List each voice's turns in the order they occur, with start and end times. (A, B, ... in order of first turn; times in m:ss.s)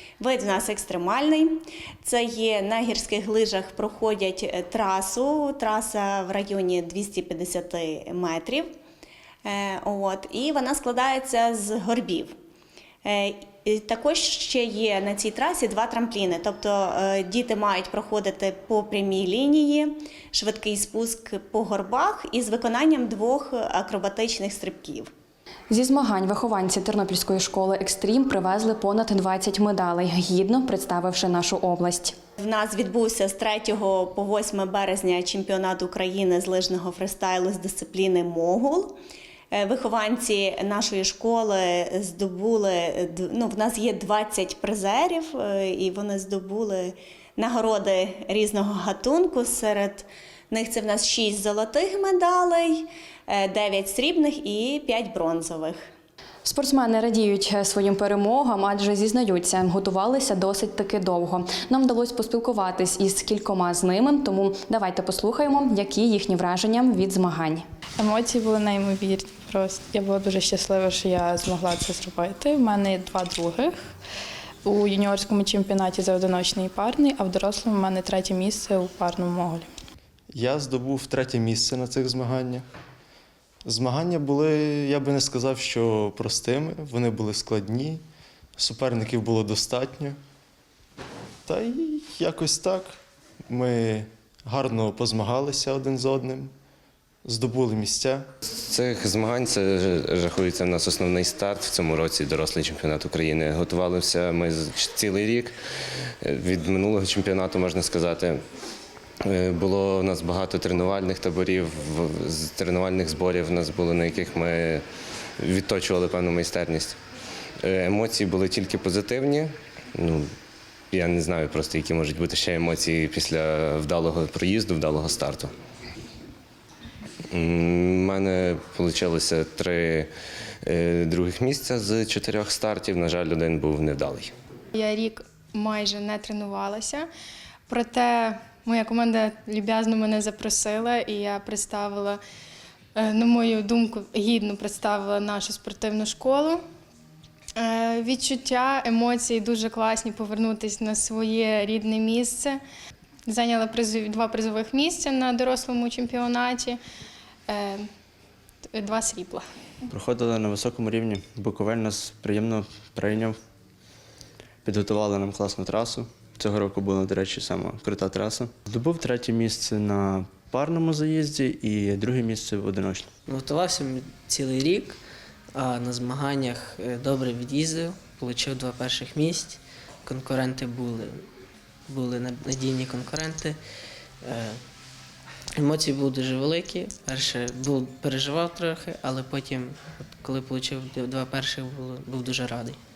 0:00.2-0:08.7 A
0:09.5-0:12.3 A
0:13.0-0:25.1 A
0:25.7-0:32.2 B
0:32.4-0:39.0 A
0:39.5-0:55.8 A
0:56.4-1:07.6 B
1:08.0-1:13.9 C
1:14.6-1:19.7 C
1:20.3-1:22.6 D
1:23.7-1:28.0 D
1:28.6-1:30.2 D
1:31.5-1:33.0 D
1:33.5-1:36.5 D
1:37.2-1:38.2 D
1:38.5-1:45.5 E
1:46.2-1:48.4 E
1:49.2-1:54.8 E
1:55.4-1:57.0 E
1:57.6-2:00.3 E
2:00.9-2:05.5 E
2:07.3-2:10.1 E
2:10.7-2:14.3 E
2:14.7-2:17.1 F
2:17.7-2:22.2 F
2:23.0-2:26.6 F
2:27.6-2:32.6 F
2:33.3-2:36.8 F
2:37.5-2:37.9 F
2:38.7-2:39.4 F
2:39.9-2:43.4 G
2:44.6-2:53.1 G
2:53.3-2:55.0 H
2:55.5-3:01.2 H
3:01.9-3:03.6 H
3:04.2-3:04.6 H
3:05.6-3:12.8 H